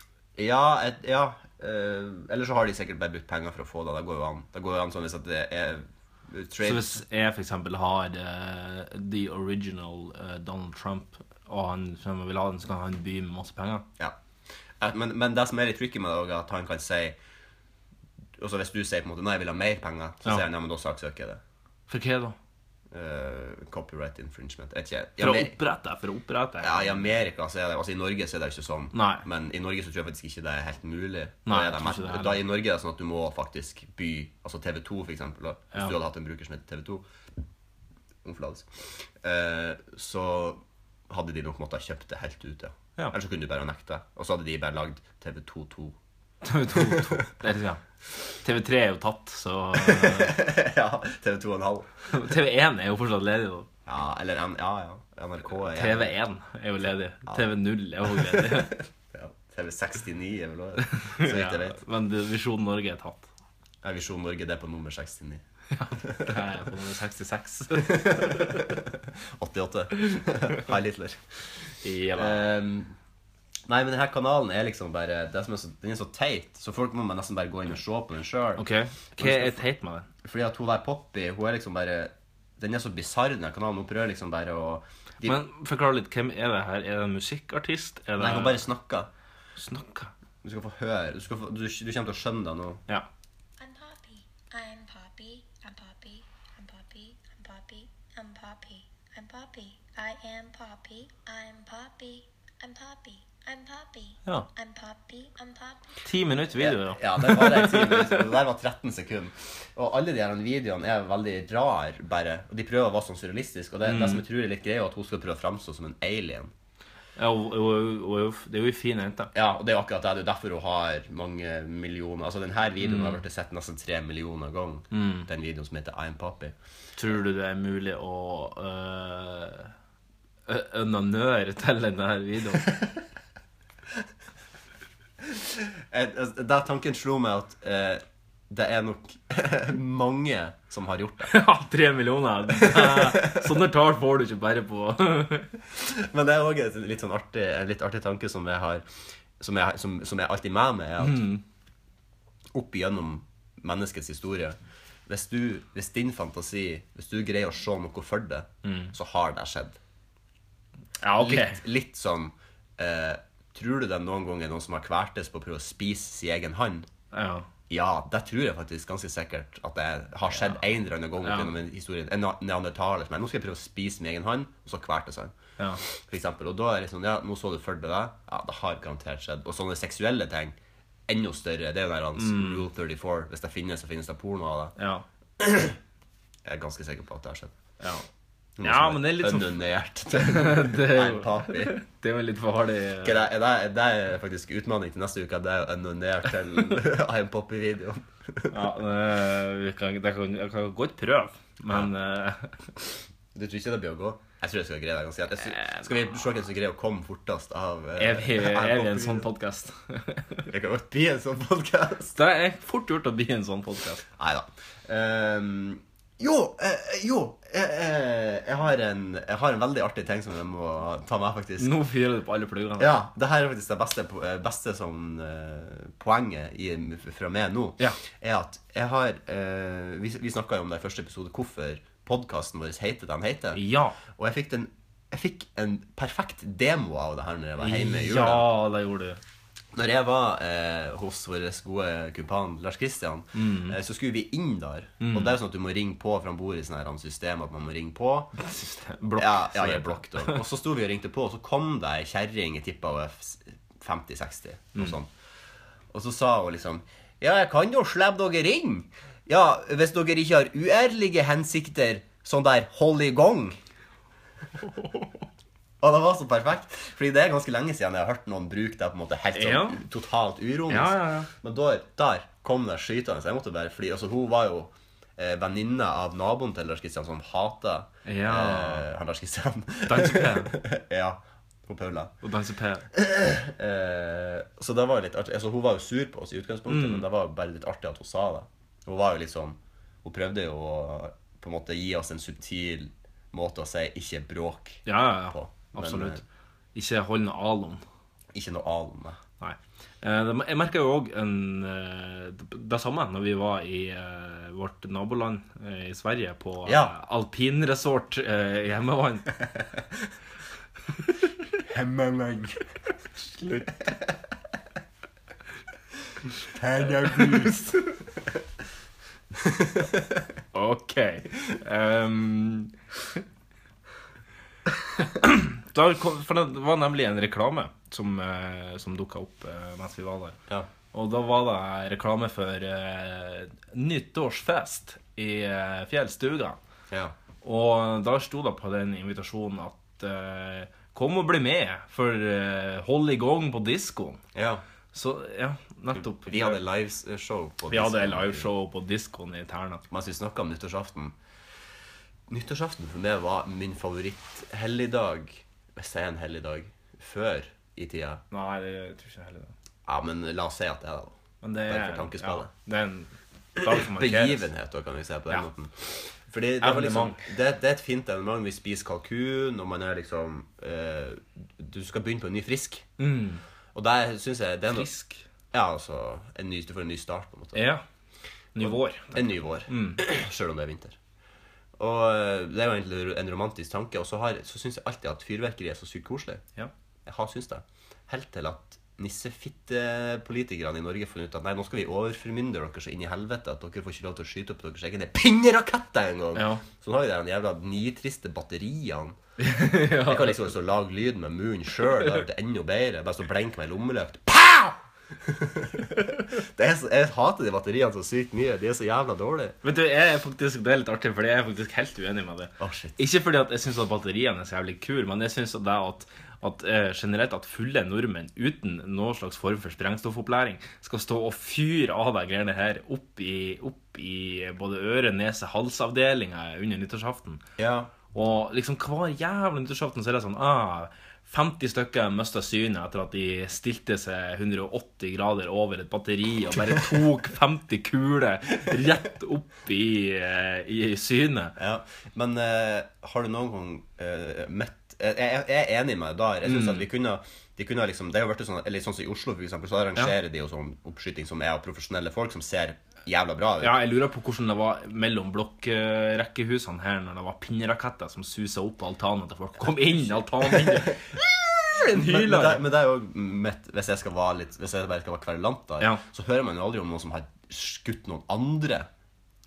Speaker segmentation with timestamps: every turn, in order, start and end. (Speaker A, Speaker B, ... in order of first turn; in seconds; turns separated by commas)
Speaker A: 0.3-7.0, Speaker B: 6.6-13.8, Speaker A: 14.8-17.2, Speaker A: 18.4-21.4, Speaker B: 21.9-22.4, Speaker A: 22.9-25.6, Speaker B: 25.2-27.0, Speaker A: 26.6-37.0, Speaker B: 28.9-29.2, Speaker B: 31.4-32.4, Speaker A: 38.2-46.0, Speaker B: 46.4-47.8, Speaker B: 48.4-50.4, Speaker A: 49.8-52.1, Speaker B: 52.1-53.7, Speaker A: 53.9-56.1, Speaker B: 55.6-58.8, Speaker A: 58.0-61.8, Speaker B: 60.9-63.3, Speaker A: 63.8-65.4, Speaker B: 65.8-68.5, Speaker A: 66.0-66.4, Speaker A: 67.8-71.3, Speaker B: 71.8-72.5, Speaker A: 72.2-72.9, Speaker A: 73.7-78.6, Speaker B: 78.6-80.1, Speaker A: 79.2-79.6, Speaker A: 80.2-85.4, Speaker B: 85.2-88.6, Speaker A: 88.2-89.1, Speaker B: 89.6-90.1, Speaker A: 90.4-92.8, Speaker C: 93.6-106.0, Speaker B: 106.0-108.2, Speaker A: 106.5-116.5, Speaker B: 113.8-114.2, Speaker B: 117.2-119.3, Speaker A: 119.3-126.5, Speaker B: 122.8-123.2, Speaker B: 124.9-125.3, Speaker B: 127.0-129.7, Speaker B: 130.5-132.7, Speaker A: 135.3-141.3, Speaker B: 141.3-145.5, Speaker A: 142.5-143.4, Speaker A: 145.8-148.8, Speaker A: 149.4-151.3, Speaker B: 151.0-151.4, Speaker A: 152.5-159.8, Speaker B: 158.6-158.9, Speaker B: 161.0-161.6, Speaker A: 161.2-166.9, Speaker B: 167.1-167.4, Speaker A: 167.7-180.6, Speaker B: 171.2-171.5, Speaker A: 181.1-184.7, Speaker B: 182.2-182.6, Speaker B: 184.8-185.0, Speaker A: 185.4-185.8, Speaker A: 186.4-187.5, Speaker B: 187.8-188.1, Speaker A: 188.6-191.8, Speaker B: 188.6-189.5, Speaker B: 190.1-193.2, Speaker A: 193.0-198.6, Speaker B: 198.5-202.7, Speaker A: 203.3-209.3, Speaker B: 205.5-205.8, Speaker B: 208.0-210.4, Speaker A: 210.5-212.2, Speaker B: 212.1-214.1, Speaker A: 214.2-221.7, Speaker B: 221.6-223.0, Speaker A: 222.8-238.4, Speaker B: 233.5-234.0, Speaker B: 237.6-239.2, Speaker A: 239.7-248.3, Speaker B: 243.3-243.8, Speaker B: 245.0-245.3, Speaker B: 248.4-250.4, Speaker A: 249.2-255.1, Speaker A: 255.9-263.6, Speaker B: 264.8-265.1, Speaker A: 265.8-282.1, Speaker B: 269.3-269.8, Speaker B: 270.7-271.3, Speaker B: 278.0-278.9, Speaker B: 279.9-280.5, Speaker B: 282.2-282.8, Speaker A: 282.9-296.2, Speaker B: 286.7-287.0, Speaker B: 294.9-296.2, Speaker B: 296.7-297.8, Speaker A: 298.3-299.2, Speaker B: 299.4-309.4, Speaker A: 306.6-306.9, Speaker A: 311.7-312.6, Speaker A: 316.6-317.5, Speaker B: 317.0-317.7, Speaker B: 320.5-322.7, Speaker B: 325.0-330.4, Speaker B: 330.9-336.6, Speaker A: 336.9-337.1, Speaker B: 337.4-344.2, Speaker A: 344.3-344.6, Speaker B: 344.9-346.6, Speaker A: 345.9-348.5, Speaker B: 347.7-349.8, Speaker A: 349.9-351.1, Speaker A: 352.3-358.2, Speaker B: 358.3-359.5, Speaker A: 359.9-362.5, Speaker B: 361.4-364.4, Speaker A: 363.6-372.9, Speaker B: 366.6-367.3, Speaker B: 373.0-373.4, Speaker A: 373.7-374.9, Speaker B: 374.7-375.2, Speaker A: 375.5-377.7, Speaker B: 377.5-377.8, Speaker B: 378.5-380.0, Speaker A: 378.6-381.0, Speaker A: 381.8-386.4, Speaker A: 387.1-399.2, Speaker B: 396.3-396.6, Speaker B: 399.4-400.4, Speaker A: 399.9-409.6, Speaker B: 409.6-427.4, Speaker A: 412.6-413.0, Speaker A: 427.6-427.9, Speaker B: 428.1-441.5, Speaker A: 441.6-453.8, Speaker B: 446.4-446.9, Speaker B: 453.6-462.6, Speaker A: 460.4-460.9, Speaker A: 461.8-468.9